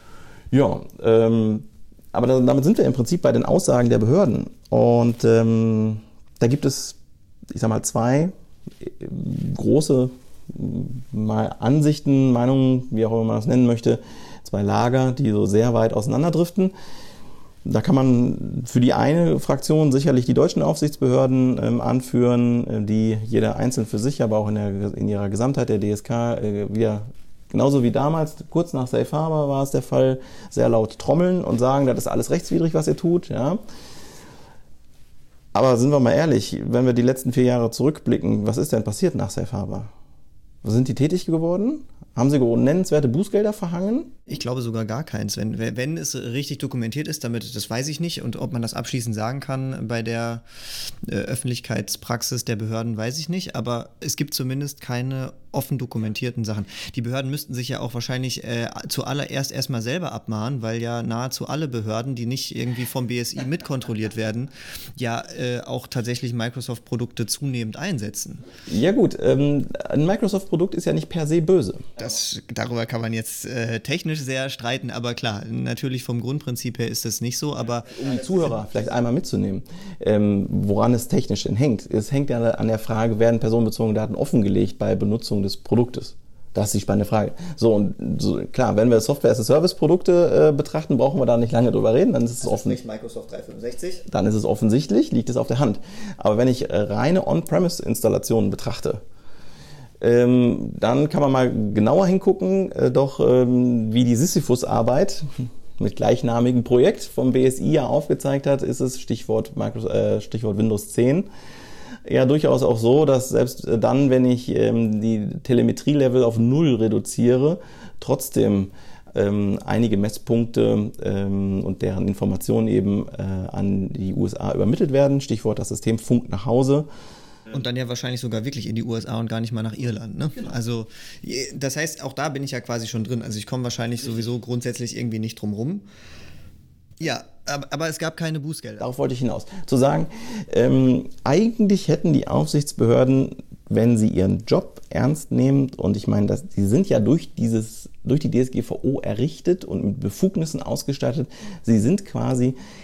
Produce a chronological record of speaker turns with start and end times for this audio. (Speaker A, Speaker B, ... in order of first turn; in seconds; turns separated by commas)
Speaker A: 0.5-7.0, Speaker A: 7.5-16.7, Speaker A: 17.6-33.6, Speaker A: 35.5-39.9, Speaker A: 40.6-44.2, Speaker B: 44.3-50.4, Speaker B: 51.0-68.4, Speaker A: 68.7-71.9, Speaker B: 72.0-78.2, Speaker A: 77.8-92.8, Speaker B: 92.4-94.0, Speaker A: 94.1-99.0, Speaker A: 100.0-111.3, Speaker A: 112.0-126.9, Speaker B: 127.5-135.8, Speaker B: 137.0-138.9, Speaker A: 138.8-152.5